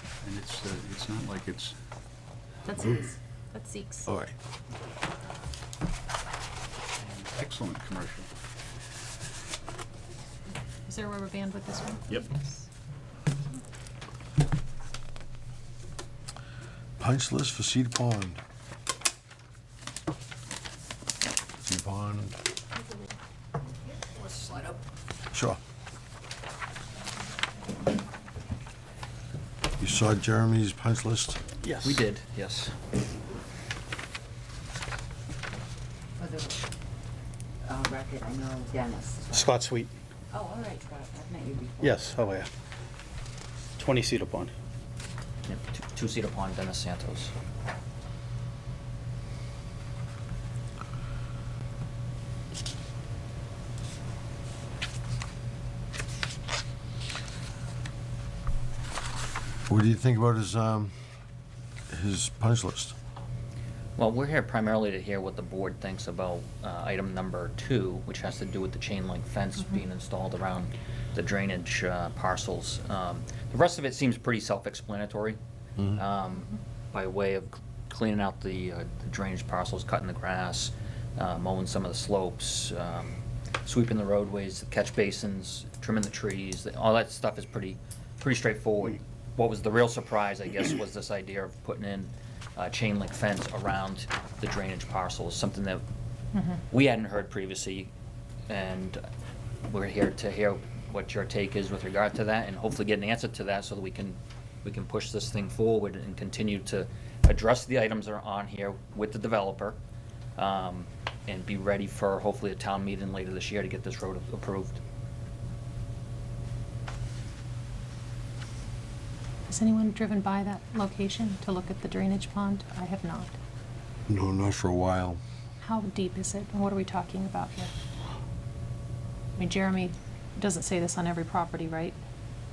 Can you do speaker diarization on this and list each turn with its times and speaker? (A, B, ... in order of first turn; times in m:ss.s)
0:00.2-0:01.8 A
0:02.6-0:04.1 B
0:02.8-0:03.1 C
0:04.0-0:04.4 C
0:07.0-0:08.3 A
0:10.8-0:12.7 B
0:17.0-0:18.4 C
0:21.6-0:22.4 C
0:24.0-0:24.8 D
0:25.3-0:25.6 C
0:29.8-0:31.4 C
0:31.6-0:31.9 E
0:31.8-0:32.8 D
0:36.2-0:36.7 F
0:37.6-0:39.6 F
0:39.3-0:39.9 E
0:40.3-0:42.2 F
0:41.8-0:42.5 E
0:43.8-0:44.5 E
0:45.4-0:47.3 D
0:59.7-1:00.9 C
1:01.9-1:02.9 C
1:04.0-1:15.4 D
1:15.9-1:35.8 D
1:36.7-1:37.9 D
1:38.5-1:39.0 D
1:39.6-1:49.8 D
1:50.4-1:54.8 D
1:59.5-2:03.3 B
2:04.1-2:05.2 C
2:05.6-2:07.7 B
2:09.4-2:12.0 B